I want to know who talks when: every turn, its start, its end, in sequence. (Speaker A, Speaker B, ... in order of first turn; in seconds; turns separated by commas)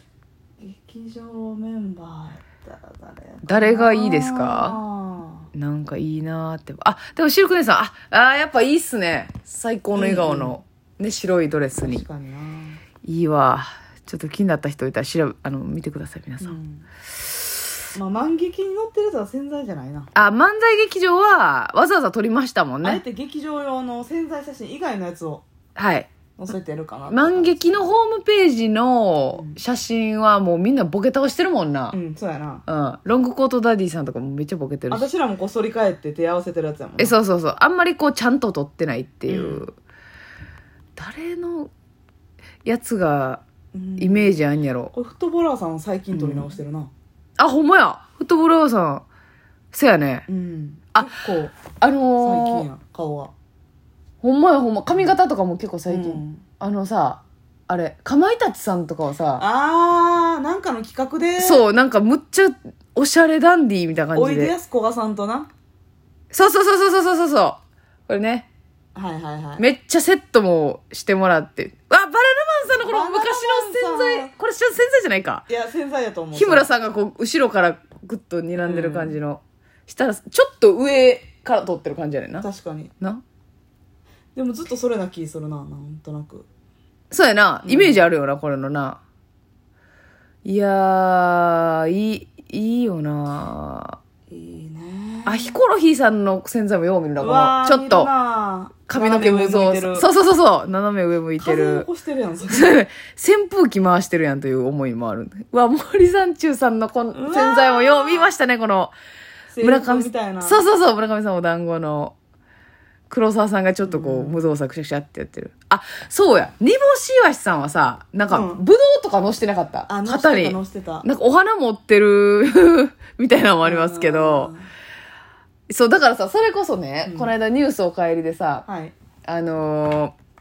Speaker A: 0.6-5.5, Speaker B: 3.4-4.8, Speaker B: 5.5-12.0, Speaker A: 9.9-10.6, Speaker A: 11.8-12.8, Speaker B: 13.0-16.6, Speaker A: 16.4-16.9, Speaker A: 17.9-20.1, Speaker B: 20.1-23.0, Speaker A: 22.8-25.4, Speaker B: 25.8-26.1, Speaker A: 26.4-27.9, Speaker B: 27.1-32.0, Speaker A: 29.3-29.6, Speaker A: 31.9-32.6, Speaker B: 32.6-35.1, Speaker A: 34.9-37.1, Speaker B: 37.0-39.8, Speaker A: 39.3-39.6, Speaker B: 41.0-41.7, Speaker B: 42.6-43.4, Speaker A: 43.7-44.3, Speaker B: 44.0-44.9, Speaker A: 44.9-46.9, Speaker B: 46.1-46.6, Speaker B: 47.4-49.0, Speaker B: 49.7-50.2, Speaker A: 50.3-51.6, Speaker B: 51.8-52.6, Speaker A: 52.2-53.3, Speaker B: 54.2-59.4, Speaker A: 55.9-56.4, Speaker A: 59.4-61.6, Speaker B: 61.4-64.5, Speaker A: 64.1-65.5, Speaker B: 66.3-68.5, Speaker A: 68.9-69.6, Speaker B: 69.6-75.5, Speaker A: 72.8-74.3, Speaker A: 75.5-76.7, Speaker B: 76.3-82.5, Speaker A: 78.6-79.1, Speaker A: 82.4-82.9, Speaker A: 84.3-86.5, Speaker B: 87.1-89.0, Speaker A: 87.6-88.0, Speaker B: 90.4-94.0, Speaker A: 94.3-95.6, Speaker B: 95.2-98.1, Speaker A: 97.2-100.1, Speaker B: 98.9-101.9, Speaker A: 101.4-102.7, Speaker B: 102.5-108.9, Speaker A: 107.1-108.3, Speaker A: 109.5-110.6, Speaker B: 109.6-112.1, Speaker B: 113.1-124.5, Speaker A: 113.8-114.4, Speaker A: 118.3-118.6, Speaker A: 119.9-121.0, Speaker A: 123.6-124.7, Speaker B: 125.7-128.6, Speaker A: 127.0-127.3, Speaker A: 128.7-128.9, Speaker B: 129.2-130.1